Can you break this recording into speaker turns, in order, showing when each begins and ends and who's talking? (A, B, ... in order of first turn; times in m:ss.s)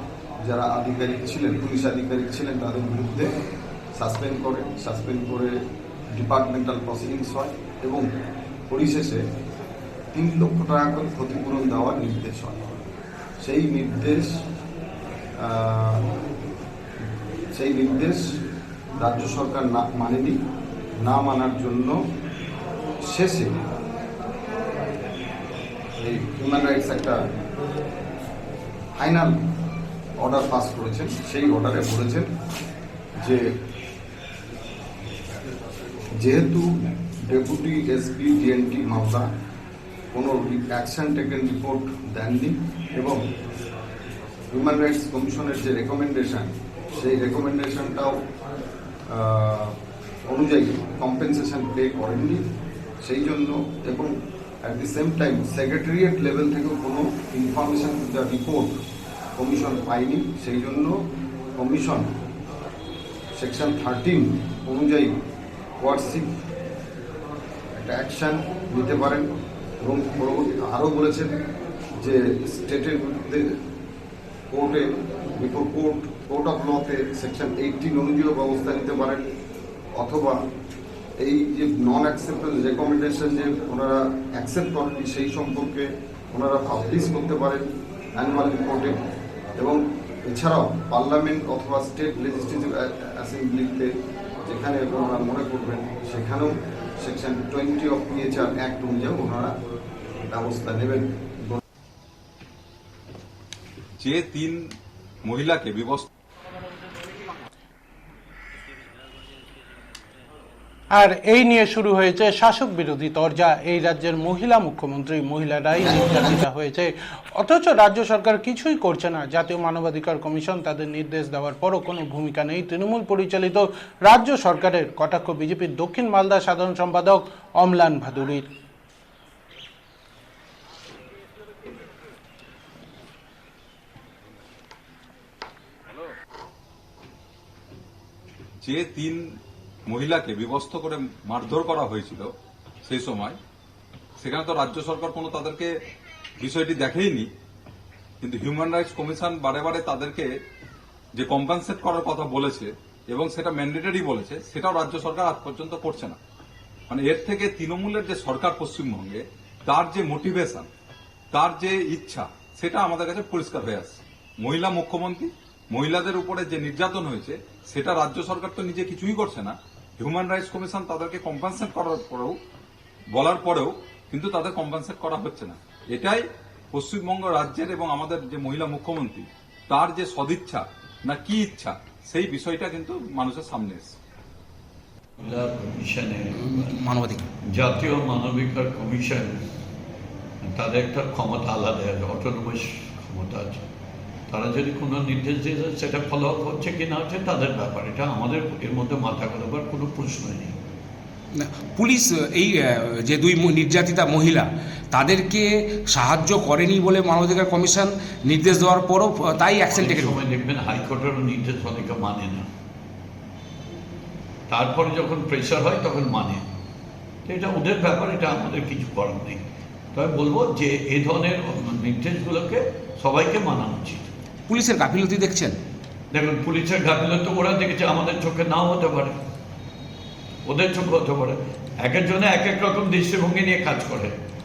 0:00.5-0:03.3 A
0:04.0-0:05.5 A
0:06.2-0:08.0 A
0:08.7-0:09.2 A
0:10.1-0:12.8 A
0:13.4-0:14.4 A
0:15.4-0:16.0 A
0:17.6-0:18.3 A
0:19.0-0:20.4 A
0:21.0-0:22.0 A
0:23.1-0:23.6 A
0:26.0-0:27.2 A
0:29.0-0:29.4 A
0:30.2-0:32.3 A
0:36.2-0:39.3 A
0:40.1-0:43.2 A
0:44.5-0:48.2 A
0:49.1-0:49.8 A
0:50.3-0:52.4 A
0:53.0-0:54.1 A
0:54.6-0:58.7 A
0:59.4-1:01.0 A
1:01.6-1:02.1 A
1:03.4-1:05.1 A
1:05.8-1:06.3 A
1:07.8-1:09.3 A
1:09.8-1:11.3 A
1:12.0-1:13.5 A
1:14.5-1:14.8 A
1:15.4-1:19.2 A
1:20.0-1:20.4 A
1:21.2-1:27.6 A
1:28.2-1:29.0 A
1:29.6-1:33.9 A
1:34.5-1:39.5 A
1:40.3-1:41.6 A
1:44.0-1:44.6 B
1:45.2-1:46.1 B
1:50.9-2:08.5 C
2:18.6-2:19.2 B
2:19.9-2:22.3 B
2:22.8-2:23.4 B
2:24.2-2:25.7 B
2:26.4-2:27.3 B
2:28.2-2:30.3 B
2:31.2-2:36.2 B
2:36.9-2:40.7 B
2:41.3-2:52.4 B
2:53.2-3:03.9 B
3:05.2-3:06.9 D
3:06.5-3:07.2 E
3:07.5-3:09.4 D
3:10.4-3:13.6 D
3:14.3-3:20.6 D
3:21.3-3:30.2 E
3:29.7-3:32.5 D
3:34.5-3:36.4 D
3:37.3-3:39.4 D
3:40.0-3:44.1 D
3:44.5-3:45.6 E
3:46.1-3:49.2 D
3:50.5-3:54.2 D